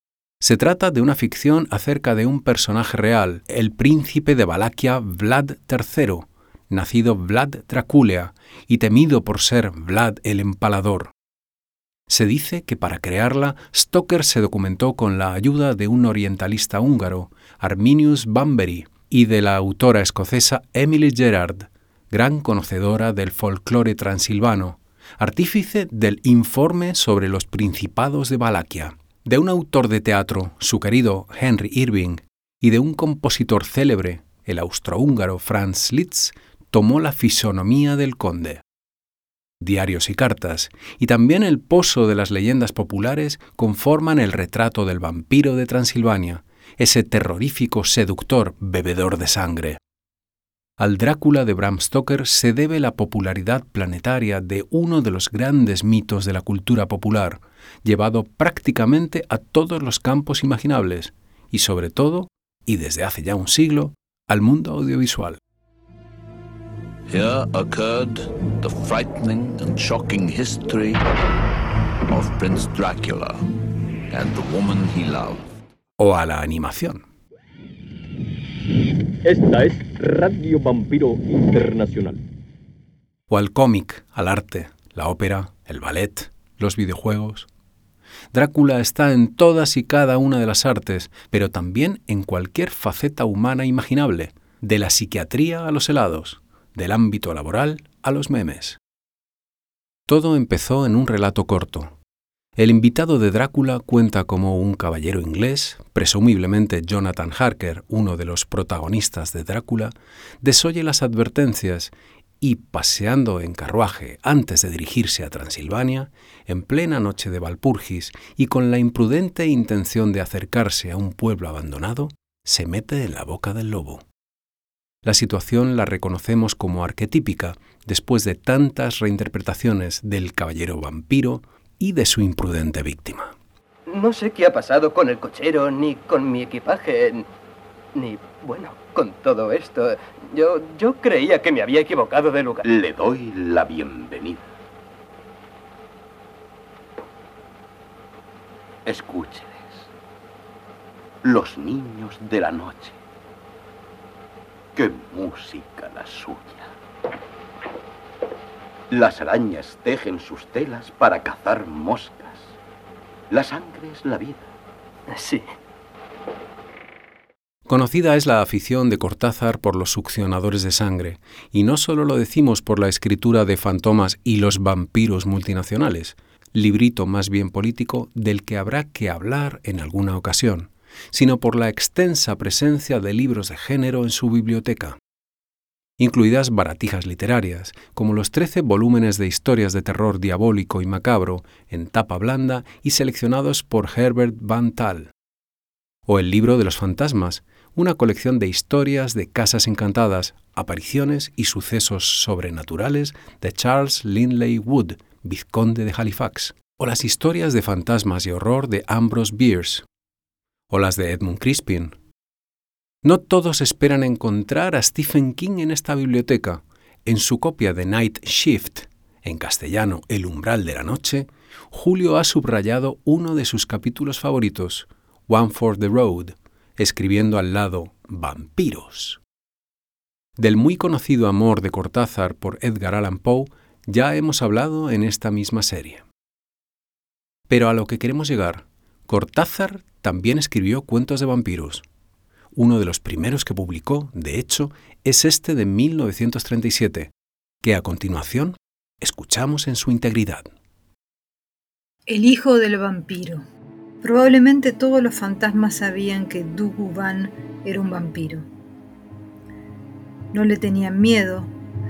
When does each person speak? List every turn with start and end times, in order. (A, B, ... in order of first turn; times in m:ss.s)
0:00.4-0:11.1 A
0:12.1-0:38.6 A
0:39.6-0:49.8 A
0:50.8-1:05.4 A
1:07.1-1:11.1 B
1:12.1-1:13.4 B
1:14.1-1:15.5 B
1:16.0-1:17.0 A
1:19.3-1:22.2 C
1:23.3-1:27.5 A
1:28.3-1:38.8 A
1:40.1-1:42.0 A
1:42.6-2:04.0 A
2:05.0-2:13.3 A
2:13.9-2:17.2 D
2:17.9-2:22.6 D
2:22.6-2:24.5 E
2:28.8-2:29.9 E
2:31.2-2:33.0 E
2:34.7-2:36.7 E
2:38.9-2:42.5 E
2:43.3-2:44.5 E
2:45.1-2:45.4 D
2:47.7-3:05.0 A
3:06.0-3:15.1 A
3:16.1-3:29.8 A
3:30.7-3:31.9 A
3:33.0-3:49.2 A
3:50.4-3:56.0 A
3:57.5-4:01.8 A
4:02.5-4:07.1 A
4:07.6-4:10.5 A
4:12.1-4:13.5 F
4:14.0-4:18.5 F
4:20.3-4:21.5 F